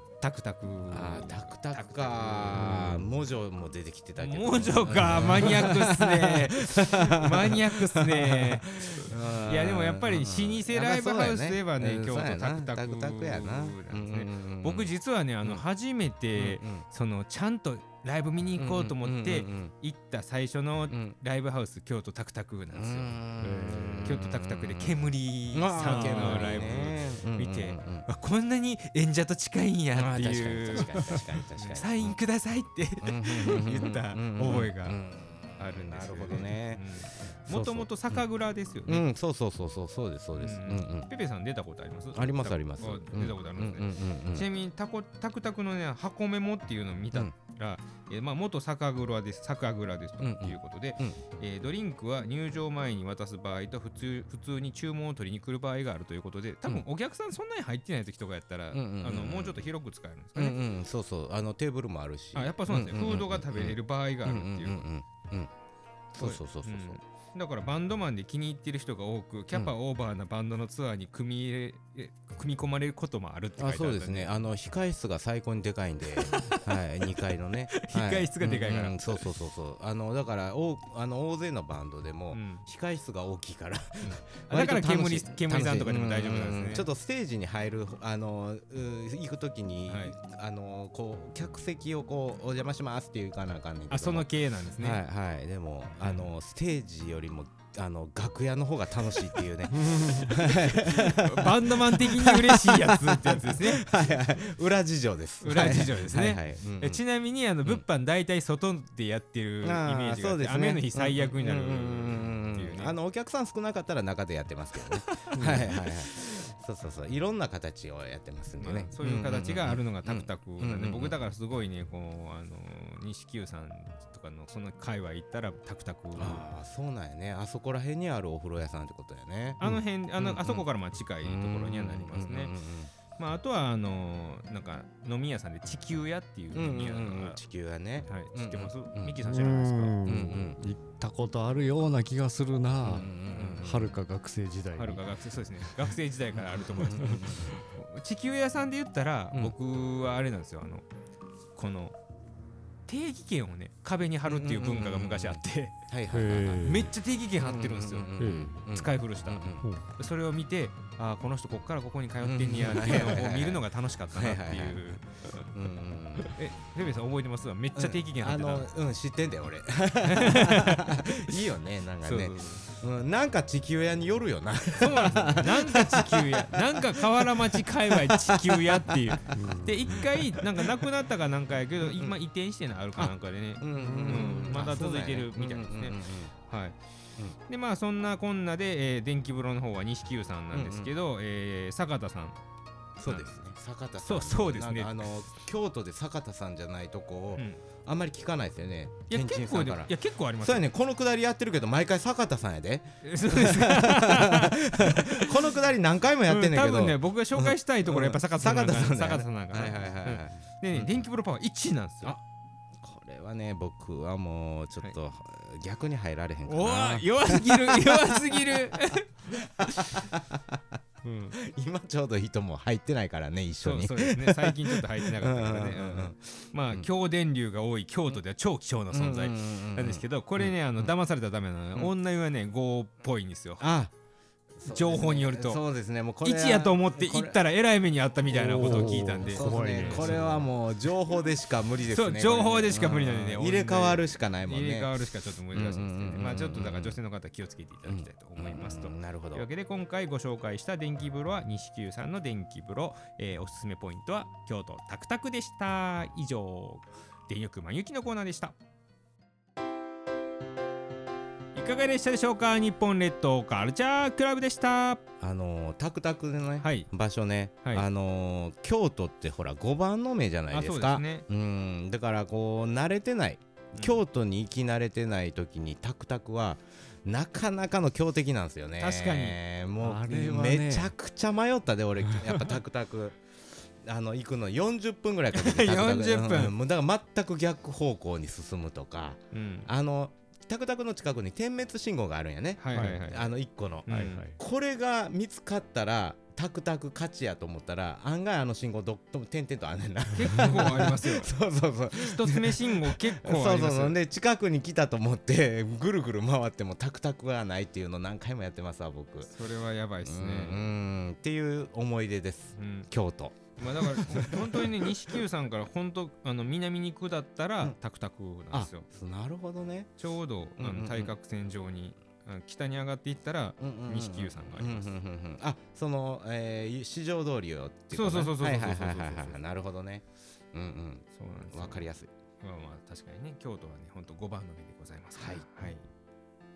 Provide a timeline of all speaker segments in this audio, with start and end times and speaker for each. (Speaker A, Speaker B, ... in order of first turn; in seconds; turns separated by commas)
Speaker A: 0.2-3.0, Speaker B: 0.9-14.9, Speaker C: 2.6-3.0, Speaker A: 4.2-23.2, Speaker B: 16.3-16.9, Speaker B: 18.6-19.7, Speaker B: 20.9-21.2, Speaker B: 22.7-25.0, Speaker C: 23.4-24.2, Speaker A: 24.1-35.0, Speaker B: 25.5-28.1, Speaker C: 25.8-26.5, Speaker B: 29.9-32.2, Speaker B: 33.0-36.8, Speaker A: 35.6-39.1, Speaker B: 37.4-38.2, Speaker B: 38.9-41.1, Speaker A: 40.4-60.6, Speaker B: 42.1-44.5, Speaker B: 50.2-51.2, Speaker B: 58.7-59.7, Speaker B: 60.4-65.5, Speaker A: 62.4-64.9, Speaker B: 66.1-67.0, Speaker A: 66.2-74.4, Speaker B: 73.6-107.0, Speaker A: 76.2-77.0, Speaker A: 77.7-79.3, Speaker A: 82.3-82.7, Speaker A: 84.0-86.9, Speaker A: 89.9-90.1, Speaker A: 93.9-95.0, Speaker A: 96.0-96.3, Speaker C: 99.7-100.5, Speaker A: 100.8-103.8, Speaker A: 105.4-112.9, Speaker B: 109.6-121.2, Speaker A: 114.9-115.9, Speaker C: 115.3-115.8, Speaker A: 118.6-126.4, Speaker B: 126.2-130.7, Speaker A: 129.6-132.5, Speaker B: 131.2-132.9, Speaker A: 133.2-137.4, Speaker B: 136.5-139.2, Speaker A: 138.0-140.0, Speaker C: 139.2-145.1, Speaker B: 140.1-140.6, Speaker B: 142.8-143.9, Speaker A: 143.3-143.6, Speaker A: 144.8-150.8, Speaker B: 146.8-147.5, Speaker C: 146.9-147.5, Speaker A: 151.6-152.0, Speaker A: 152.9-155.8, Speaker B: 154.3-159.7, Speaker C: 156.1-156.9, Speaker A: 156.6-158.1, Speaker C: 158.2-158.6, Speaker A: 158.7-159.4, Speaker A: 160.0-165.5, Speaker B: 162.2-165.0, Speaker B: 165.5-166.3, Speaker A: 166.3-168.7, Speaker B: 167.8-179.4, Speaker A: 170.1-171.4, Speaker A: 172.0-172.6, Speaker A: 174.8-186.8, Speaker C: 179.3-180.1, Speaker B: 180.0-180.7, Speaker B: 181.8-182.2, Speaker B: 183.0-186.3, Speaker C: 183.8-184.8, Speaker A: 187.5-192.4, Speaker B: 190.5-190.9, Speaker B: 193.0-210.9, Speaker A: 193.1-193.3, Speaker A: 194.0-195.1, Speaker A: 197.3-197.6, Speaker A: 199.1-200.7, Speaker A: 203.0-205.4, Speaker A: 206.3-212.2, Speaker B: 212.8-220.8, Speaker A: 216.5-219.1, Speaker A: 219.6-220.0, Speaker A: 221.0-221.3, Speaker B: 221.3-226.2, Speaker A: 223.6-233.7, Speaker B: 228.9-230.9, Speaker B: 233.6-233.9, Speaker B: 234.6-237.4, Speaker A: 234.7-235.6, Speaker A: 236.2-240.5, Speaker C: 238.3-240.4, Speaker B: 238.4-244.9, Speaker A: 241.9-258.6, Speaker B: 245.5-247.0, Speaker B: 247.9-249.5, Speaker A: 261.6-265.0, Speaker B: 265.2-283.2, Speaker A: 266.6-266.9, Speaker A: 270.5-271.3, Speaker A: 278.8-279.4, Speaker C: 279.8-280.9, Speaker C: 282.0-282.4, Speaker B: 283.8-309.4, Speaker A: 285.3-286.5, Speaker A: 289.3-289.7, Speaker A: 292.6-293.3, Speaker C: 292.7-293.0, Speaker A: 293.9-294.2, Speaker C: 293.9-294.4, Speaker A: 300.1-301.3, Speaker A: 302.0-304.0, Speaker A: 309.3-310.7, Speaker B: 310.0-315.1, Speaker A: 312.6-312.9, Speaker A: 313.6-318.9, Speaker B: 318.5-319.9, Speaker A: 320.0-324.9, Speaker B: 320.6-321.1, Speaker B: 323.6-332.1, Speaker A: 327.9-329.4, Speaker A: 331.1-331.9, Speaker A: 332.4-335.9, Speaker B: 335.2-335.8